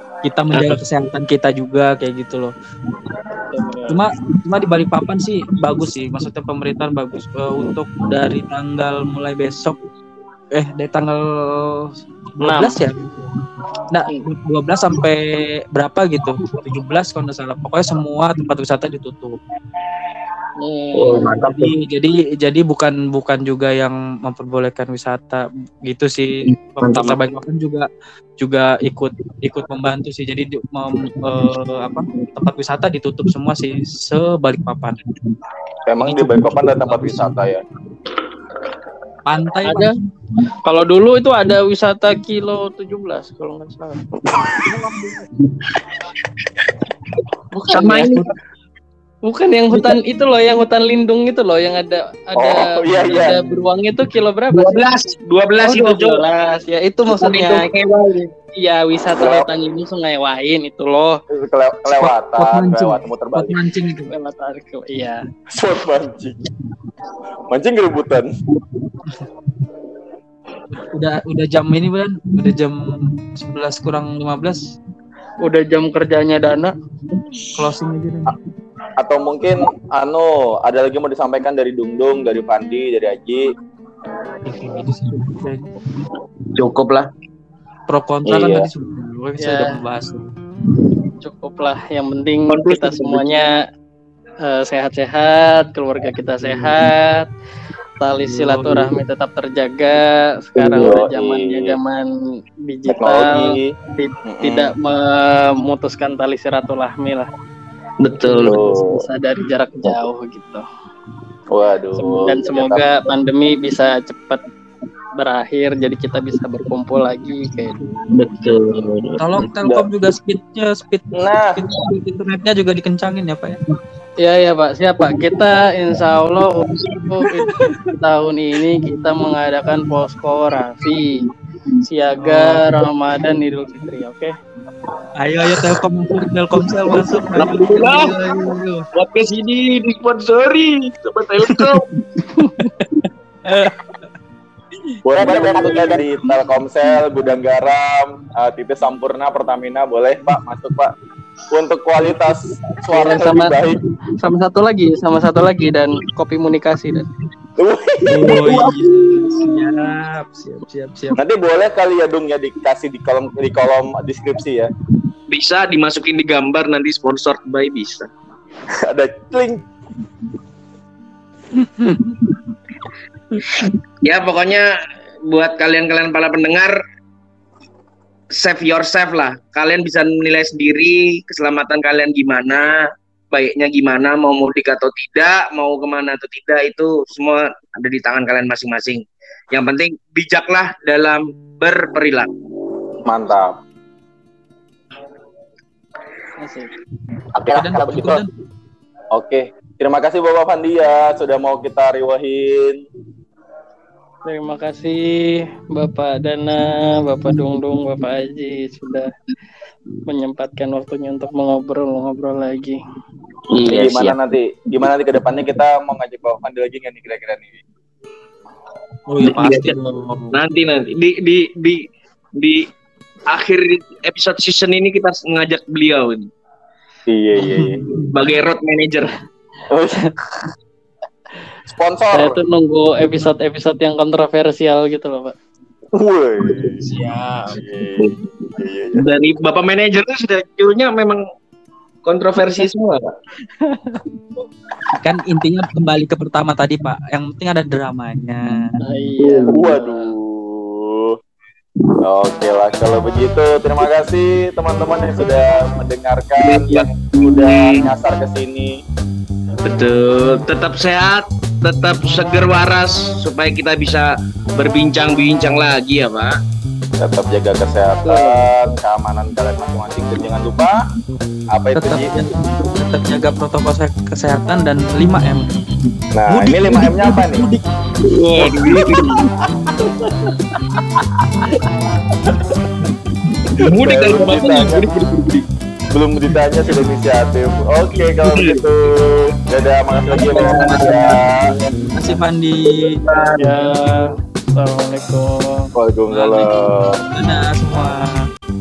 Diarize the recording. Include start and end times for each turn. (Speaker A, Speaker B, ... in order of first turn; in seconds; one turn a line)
Speaker A: 0.2-2.5
Speaker B: 0.5-0.8
Speaker C: 3.5-4.0
Speaker A: 3.9-9.8
Speaker A: 10.6-13.1
Speaker C: 12.4-12.8
Speaker A: 13.9-19.4
Speaker C: 20.6-21.5
Speaker B: 20.9-21.7
Speaker A: 21.4-27.9
Speaker B: 26.5-27.2
Speaker A: 28.4-35.0
Speaker D: 35.9-37.6
Speaker A: 36.0-37.5
Speaker A: 39.3-40.0
Speaker C: 39.6-39.9
Speaker C: 40.6-44.0
Speaker C: 47.5-48.3
Speaker B: 47.7-48.3
Speaker C: 49.2-54.9
Speaker B: 49.7-50.0
Speaker D: 52.4-53.4
Speaker B: 54.5-56.2
Speaker C: 55.6-57.7
Speaker B: 57.1-58.3
Speaker C: 58.6-61.2
Speaker D: 59.1-59.5
Speaker D: 61.3-63.6
Speaker A: 61.9-64.1
Speaker C: 64.1-65.3
Speaker D: 65.5-66.5
Speaker D: 67.5-68.3
Speaker A: 70.7-74.7
Speaker C: 75.4-76.7
Speaker B: 77.1-77.5
Speaker A: 77.6-78.3
Speaker D: 79.0-83.4
Speaker A: 84.4-86.1
Speaker B: 86.5-87.1
Speaker A: 87.9-90.3
Speaker D: 88.3-88.7
Speaker C: 89.4-89.8
Speaker C: 91.2-93.6
Speaker B: 92.5-93.2
Speaker C: 94.4-97.3
Speaker C: 98.0-102.1
Speaker A: 98.3-98.9
Speaker B: 100.7-101.0
Speaker D: 100.7-101.8
Speaker C: 102.6-107.3
Speaker D: 102.9-103.7
Speaker D: 104.2-104.7
Speaker B: 108.0-108.7
Speaker C: 108.2-110.7
Speaker D: 108.4-109.0
Speaker D: 111.5-112.9
Speaker C: 112.0-114.4
Speaker C: 115.2-117.8
Speaker B: 118.1-119.5
Speaker A: 119.2-123.6
Speaker D: 121.2-121.5
Speaker C: 124.2-131.3
Speaker B: 126.5-127.4
Speaker C: 131.9-134.4
Speaker A: 132.2-132.7
Speaker A: 135.2-138.8
Speaker B: 137.3-138.2
Speaker B: 138.9-141.9
Speaker A: 141.5-142.0
Speaker C: 142.4-142.7
Speaker A: 142.6-144.0
Speaker D: 145.0-150.9
Speaker C: 145.3-145.9
Speaker D: 151.5-153.8
Speaker C: 152.9-153.6
Speaker C: 154.2-157.1
Speaker D: 157.6-158.7
Speaker A: 158.1-161.2
Speaker B: 158.2-159.5
Speaker D: 161.2-164.7
Speaker B: 165.3-168.1
Speaker D: 168.8-169.6
Speaker A: 171.6-172.2
Speaker B: 174.0-174.7
Speaker B: 175.3-176.8
Speaker B: 178.3-192.3
Speaker D: 193.1-193.6
Speaker C: 196.4-196.7
Speaker D: 197.3-198.2
Speaker A: 197.5-198.3
Speaker D: 199.1-202.8
Speaker C: 204.2-209.1
Speaker C: 210.1-212.8
Speaker B: 213.5-214.2
Speaker D: 213.7-217.6
Speaker A: 219.1-220.4
Speaker B: 219.2-219.8
Speaker B: 220.3-221.9
Speaker B: 222.4-222.7
Speaker B: 223.3-226.3
Speaker D: 227.1-227.8
Speaker A: 227.4-228.1
Speaker B: 228.0-229.2
Speaker D: 229.7-230.0
Speaker D: 231.7-232.4
Speaker C: 232.1-235.3
Speaker D: 235.9-236.8
Speaker A: 236.8-237.8
Speaker D: 237.5-239.1
Speaker B: 238.0-238.2
Speaker B: 238.9-241.2
Speaker B: 242.1-243.1
Speaker C: 242.4-242.7
Speaker C: 243.6-244.0
Speaker A: 245.0-248.8
Speaker C: 248.8-250.1
Speaker B: 249.2-249.6
Speaker D: 249.5-251.2
Speaker D: 252.0-258.8
Speaker B: 256.4-257.9
Speaker B: 259.6-266.4
Speaker D: 267.0-270.9
Speaker B: 268.1-268.5
Speaker D: 271.5-272.1
Speaker A: 271.8-275.5
Speaker D: 276.1-277.5
Speaker A: 276.3-277.7
Speaker B: 278.0-279.3
Speaker D: 278.4-279.2
Speaker B: 283.6-285.4
Speaker D: 283.7-284.9
Speaker D: 285.9-291.5
Speaker B: 288.2-288.7
Speaker B: 290.2-291.4
Speaker A: 290.5-290.8
Speaker A: 291.9-293.0
Speaker B: 292.9-293.6
Speaker C: 293.4-295.7
Speaker D: 295.8-297.0
Speaker A: 296.1-298.2